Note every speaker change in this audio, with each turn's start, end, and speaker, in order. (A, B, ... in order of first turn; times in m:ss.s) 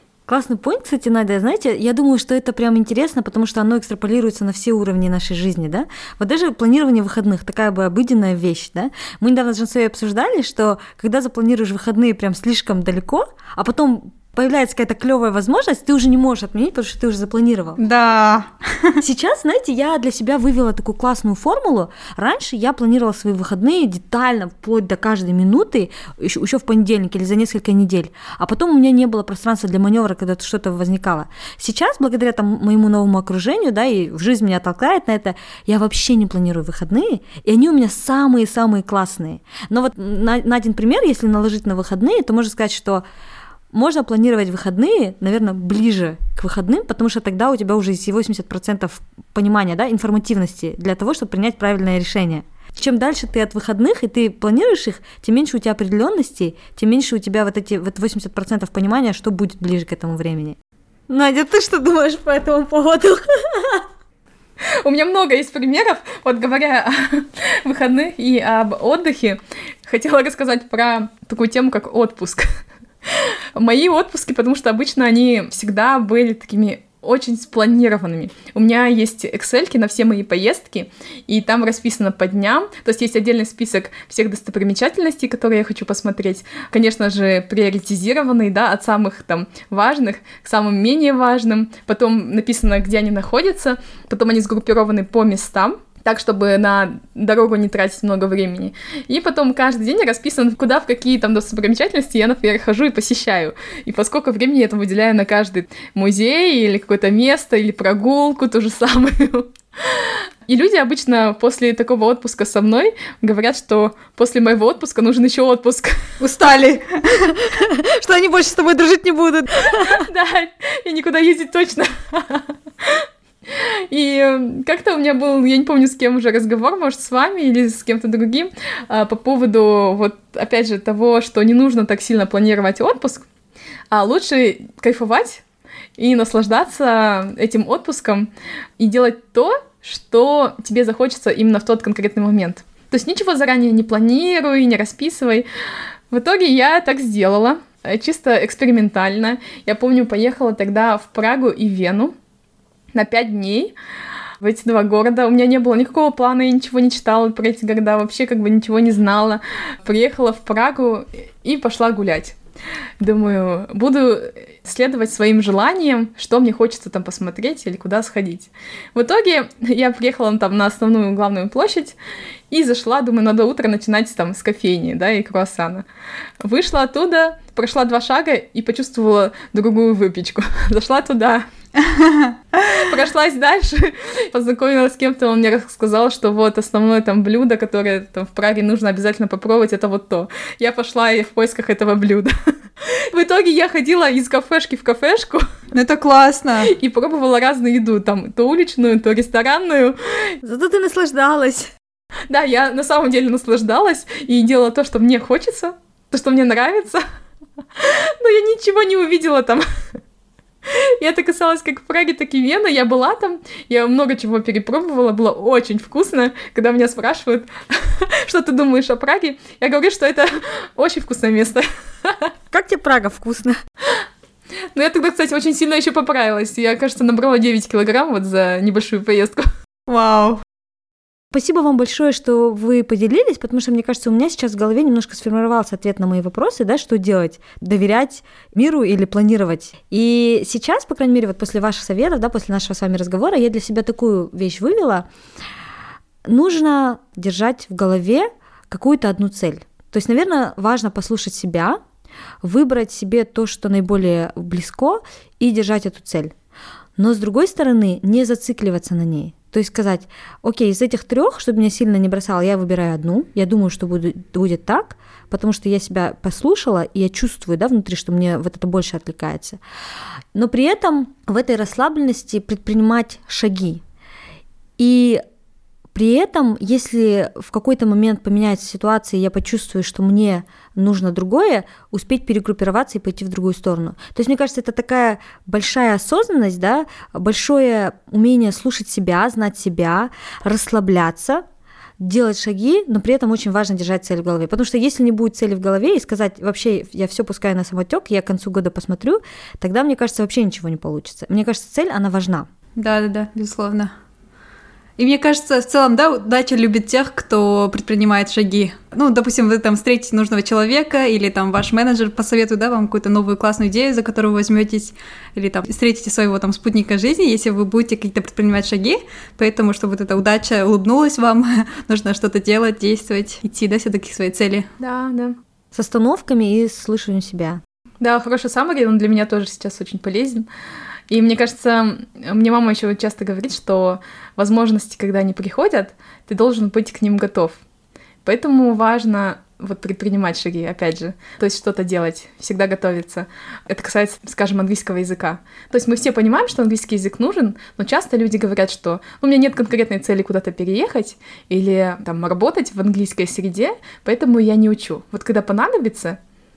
0:00.3-0:17.8 A
0:17.8-0:19.0 B
0:19.0-0:43.0 A
0:43.7-1:00.6 A
1:01.1-1:03.8 A
1:04.8-1:12.5 C
1:13.1-1:56.1 C
1:56.2-1:57.4 B
1:57.3-2:00.0 A
1:59.7-2:13.2 C
2:13.9-2:15.4 C
2:16.0-2:25.5 C
2:26.1-2:32.1 C
2:32.9-2:33.7 C
2:34.4-2:42.3 C
2:43.0-2:52.0 C
2:52.5-2:55.8 C
2:56.4-3:01.4 C
3:01.8-3:02.7 B
3:02.6-3:15.4 C
3:15.7-3:16.7 B
3:16.6-3:20.4 C
3:20.4-3:21.7 A
3:22.3-3:27.0 C
3:27.8-3:29.6 C
3:30.7-3:42.3 C
3:42.5-3:43.6 A
3:44.7-3:49.5 C
3:49.9-3:50.4 B
3:51.3-4:05.1 A
4:06.2-4:11.8 A
4:12.4-4:16.3 A
4:17.0-4:29.6 A
4:30.3-4:33.8 A
4:34.8-4:35.2 A
4:35.9-4:51.4 A
4:52.0-5:02.5 A
5:02.8-5:03.9 B
5:05.0-5:24.7 B
5:24.8-5:25.4 C
5:25.7-5:27.6 A
5:28.0-5:30.4 C
5:31.1-5:37.6 C
5:38.2-5:56.2 C